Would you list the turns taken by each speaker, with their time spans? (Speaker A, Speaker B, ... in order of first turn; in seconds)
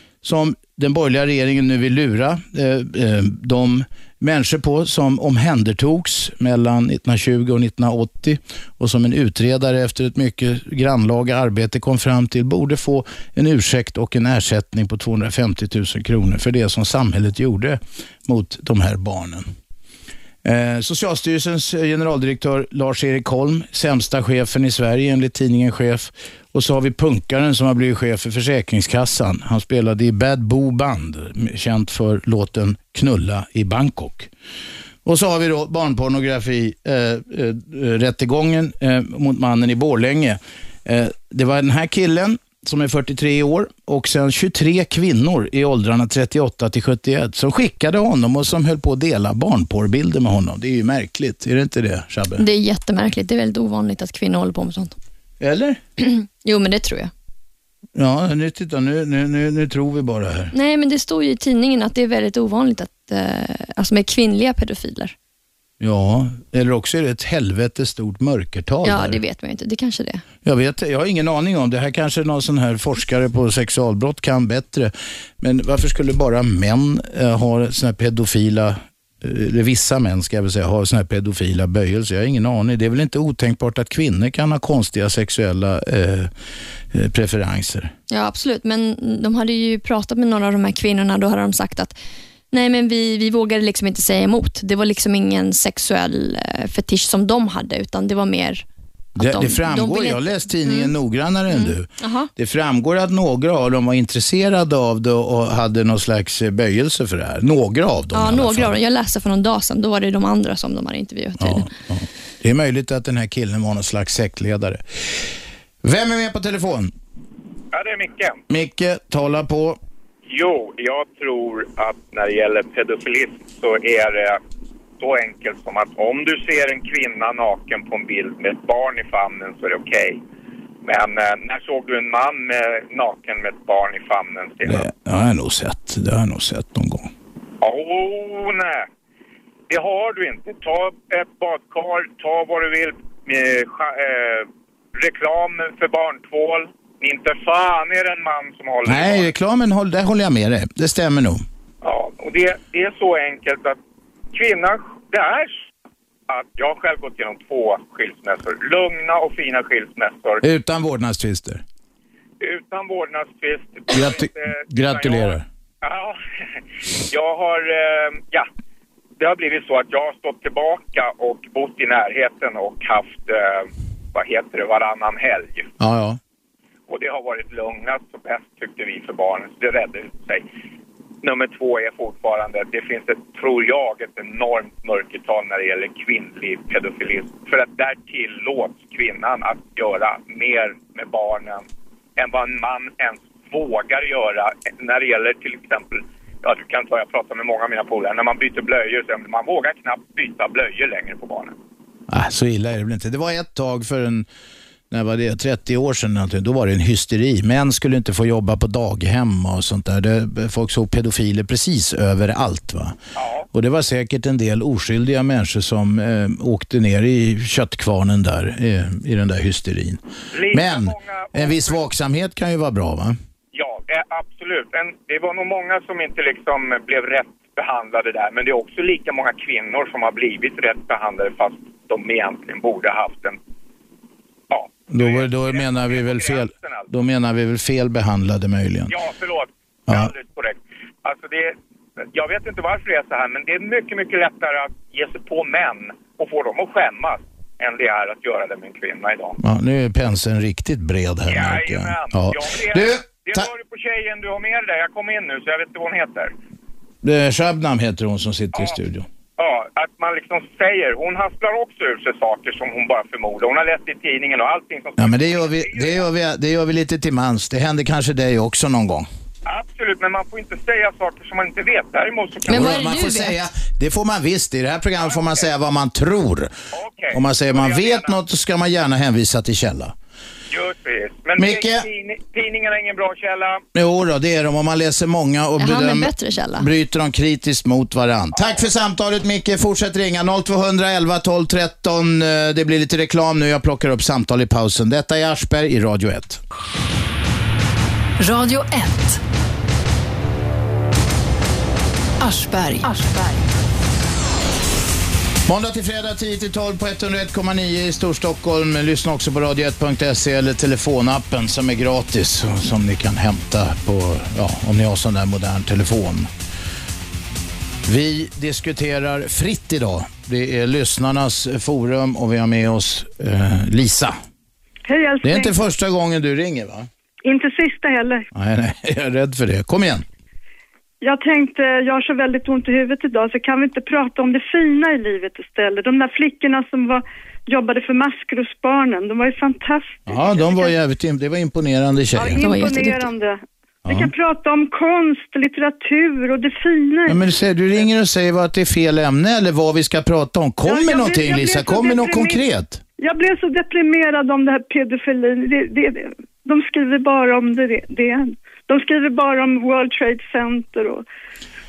Speaker A: 0.2-19.4, 20.4-34.3, 35.0-52.4, 55.4-55.8, 58.0-60.5, 65.8-69.2, 70.4-86.3, 86.9-87.9, 99.2-108.8, 111.4-114.8, 115.8-116.9, 118.5-119.8, 134.6-137.1, 148.8-151.4, 160.4-161.6, 163.9-165.4, 175.8-176.2, 202.1-204.3, 204.9-213.0, 213.5-220.0, 220.5-223.2, 234.9-238.9, 249.4-253.4, 257.0-259.1, 265.0-269.1, 272.5-276.5, 277.1-279.9, 281.4-281.8, 283.7-296.4, 305.4-316.3, 317.9-324.1, 325.2-326.9, 328.3-330.0, 340.1-342.4, 343.9-344.1, 347.1-352.8
Speaker B: 52.4-54.9, 56.0-57.1, 60.5-65.1, 68.8-70.2, 88.1-92.0, 92.5-98.6, 99.2-100.9, 101.5-102.3, 108.1-111.7, 272.5-273.4, 285.6-286.7, 342.4-343.1
Speaker C: 117.7-118.4, 120.3-124.4, 125.0-130.2, 130.8-134.9, 137.6-138.9, 139.7-149.3, 151.8-153.8, 154.3-155.7, 156.3-160.4, 162.4-166.2, 167.1-168.5, 169.2-175.7, 176.9-180.4, 181.2-191.6, 192.2-201.5, 213.2-213.4, 220.3-221.8, 223.5-233.4, 234.5-236.9, 238.9-241.5, 242.1-249.4, 251.3-256.3, 259.4-266.0, 269.4-272.8, 275.0-275.4, 276.7-278.1, 280.5-283.6
Speaker D: 298.2-299.2, 302.2-303.5
Speaker E: 324.9-325.6, 327.2-328.3, 331.0-340.7, 342.1-347.2, 350.6-352.4, 353.0-361.0